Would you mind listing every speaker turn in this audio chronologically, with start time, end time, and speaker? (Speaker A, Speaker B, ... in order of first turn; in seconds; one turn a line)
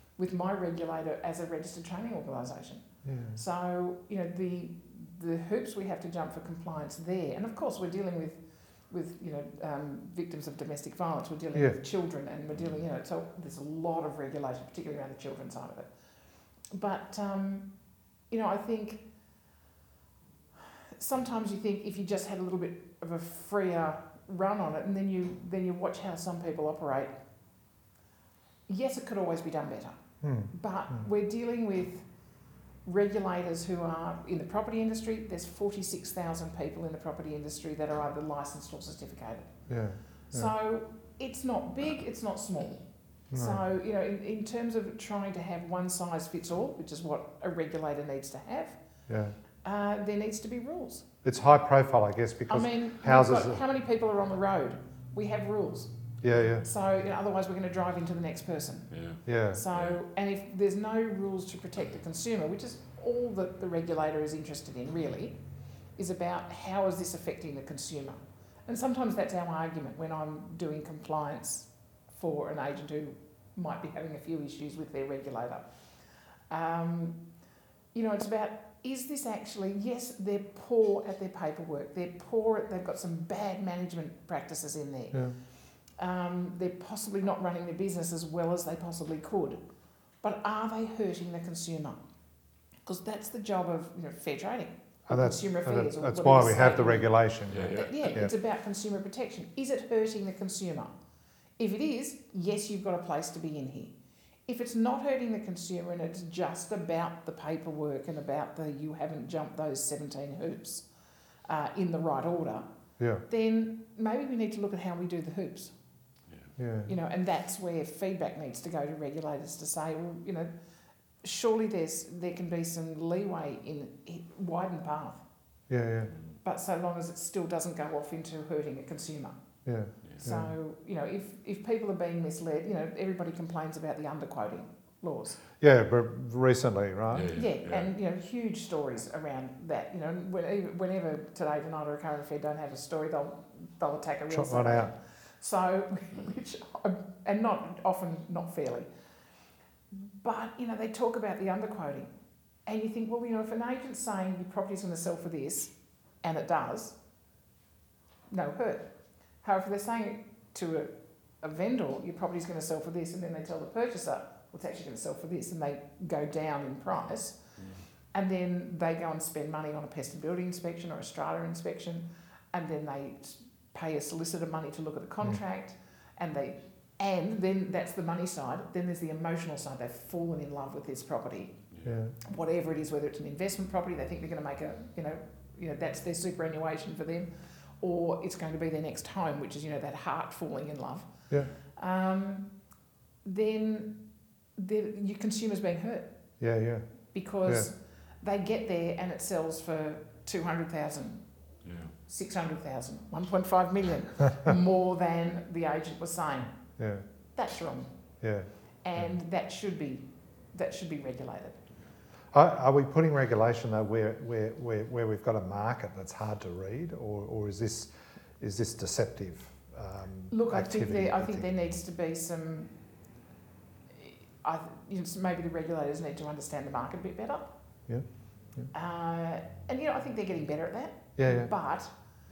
Speaker A: 0.2-15.9
Speaker B: 3.0-3.4
Speaker C: 12.5-12.8
Speaker A: 16.7-17.7
Speaker A: 18.3-19.0
Speaker A: 21.0-27.1
Speaker A: 28.7-32.1
Speaker B: 30.2-31.1
Speaker A: 32.9-39.5
Speaker B: 39.7-40.5
Speaker A: 40.3-48.8
Speaker B: 43.3-43.6
Speaker B: 49.1-49.4
Speaker A: 49.6-51.1
Speaker B: 51.2-53.6
Speaker A: 52.5-55.9
Speaker B: 56.2-56.7
Speaker A: 56.6-58.9
Speaker C: 58.9-59.2
Speaker B: 59.3-59.6
Speaker A: 59.5-65.4
Speaker C: 59.7-60.0
Speaker A: 66.0-75.9
Speaker A: 76.5-77.2
Speaker A: 77.9-85.4
Speaker A: 86.0-89.6
Speaker A: 90.2-92.0
Speaker A: 92.9-97.2
Speaker B: 95.1-98.3
Speaker C: 97.5-98.2
Speaker A: 97.7-101.0
Speaker A: 101.6-104.0
Speaker A: 104.5-110.9
Speaker A: 111.5-112.7
Speaker A: 113.3-115.7
Speaker B: 116.6-116.9
Speaker A: 116.9-120.5
Speaker A: 121.2-125.2
Speaker B: 125.7-126.1
Speaker C: 126.1-126.4
Speaker A: 126.4-129.4
Speaker B: 129.6-130.5
Speaker A: 130.2-135.4
Speaker B: 135.6-137.3
Speaker C: 137.1-137.9
Speaker A: 137.3-148.9
Speaker B: 144.3-144.9
Speaker A: 149.9-152.1
Speaker A: 152.7-157.0
Speaker A: 158.3-167.4
Speaker C: 167.6-167.8
Speaker A: 168.1-181.6
Speaker C: 181.7-182.0
Speaker B: 181.8-182.2
Speaker A: 182.2-191.1
Speaker A: 191.7-192.5
Speaker A: 193.2-194.0
Speaker A: 194.6-196.1
Speaker B: 196.4-196.9
Speaker A: 197.1-201.2
Speaker C: 201.6-201.9
Speaker A: 202.1-206.6
Speaker B: 206.8-207.0
Speaker A: 207.4-207.9
Speaker B: 208.2-208.5
Speaker A: 208.8-211.6
Speaker B: 212.3-221.5
Speaker A: 220.3-222.7
Speaker A: 224.0-227.5
Speaker A: 228.7-231.9
Speaker B: 231.2-231.5